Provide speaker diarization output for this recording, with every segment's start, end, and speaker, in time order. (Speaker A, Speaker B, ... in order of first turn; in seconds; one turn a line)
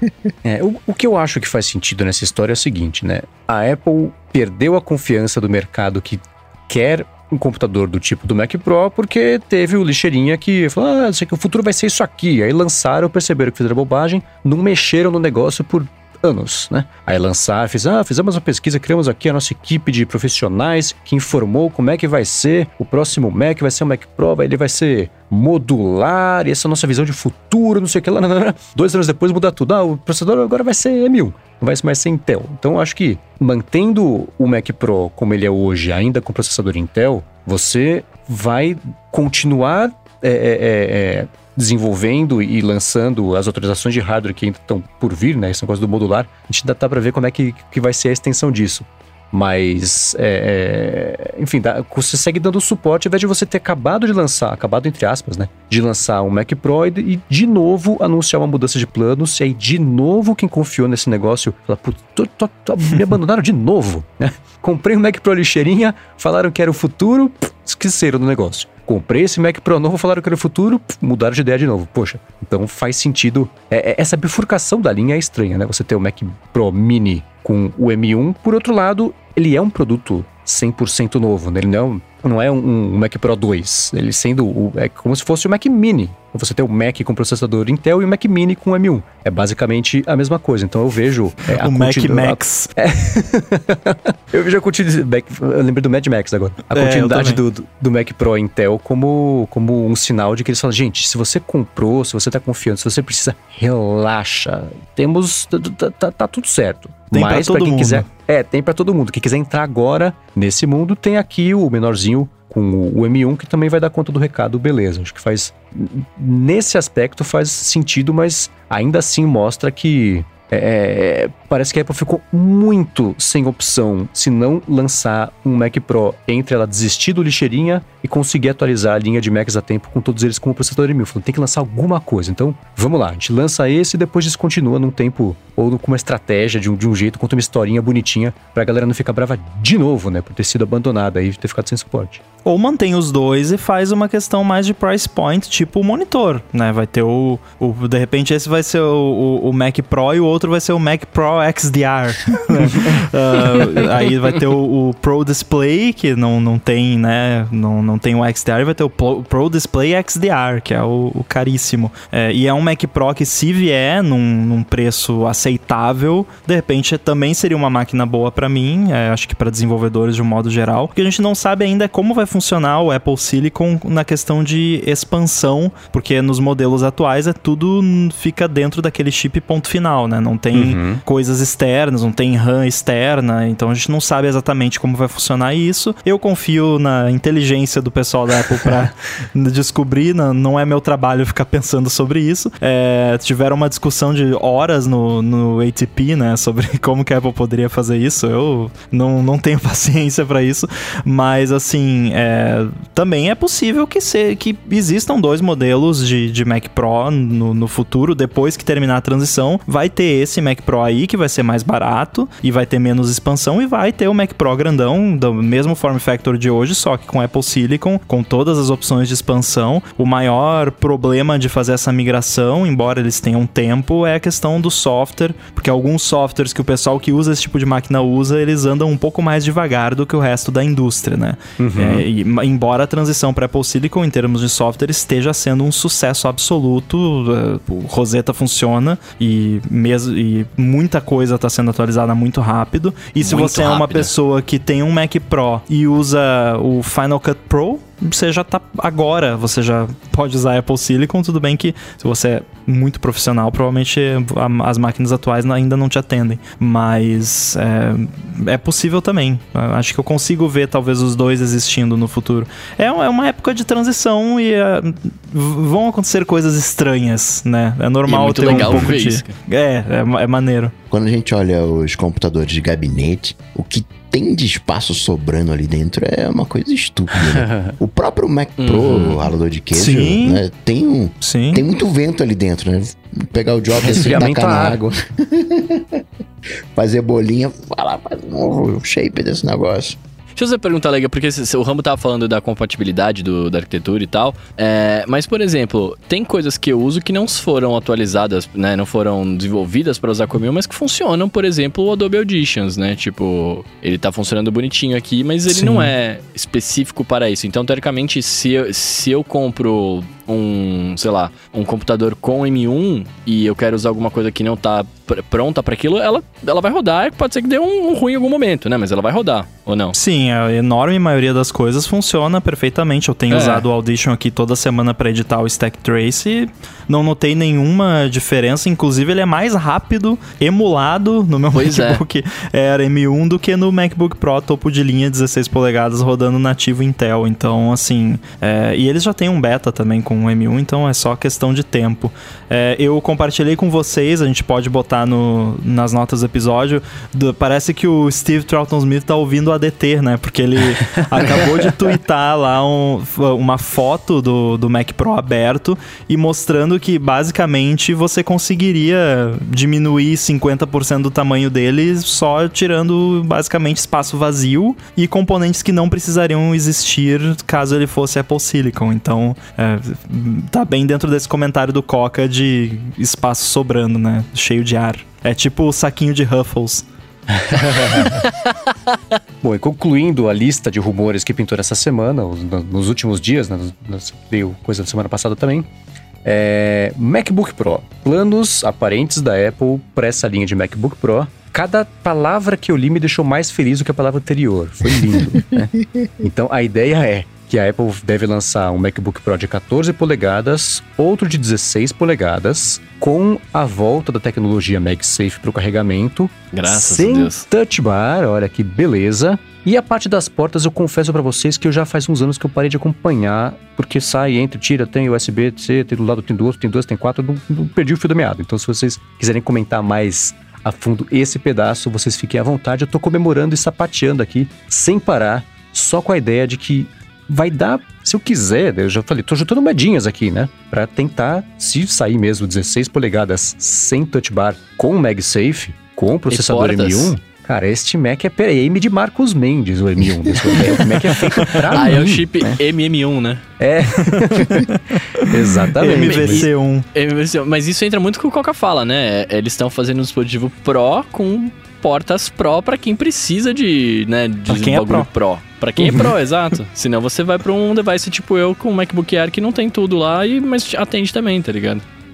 Speaker A: 0.4-142.2
Speaker B: 91.5-92.7
Speaker B: 96.7-97.4
Speaker B: 107.1-108.1
Speaker B: 142.4-270.7
Speaker A: 180.5-181.0
Speaker A: 231.6-232.1
Speaker C: 243.2-244.1
Speaker C: 268.1-269.3
Speaker A: 268.5-268.8
Speaker D: 270.9-286.0
Speaker C: 278.6-279.3
Speaker B: 279.7-280.4
Speaker B: 281.2-281.6
Speaker A: 283.8-284.8
Speaker D: 286.7-290.0
Speaker C: 290.4-319.9
Speaker B: 305.5-305.9
Speaker B: 319.9-376.9
Speaker C: 323.3-323.6
Speaker C: 331.5-332.0
Speaker A: 377.4-378.2
Speaker C: 377.8-378.1
Speaker A: 379.4-385.7
Speaker A: 386.2-442.6
Speaker C: 406.5-407.4
Speaker C: 436.3-437.1
Speaker C: 441.4-443.4
Speaker A: 443.6-444.7
Speaker B: 444.0-446.9
Speaker A: 445.3-446.4
Speaker C: 445.8-461.8
Speaker B: 454.5-455.1
Speaker A: 455.8-456.1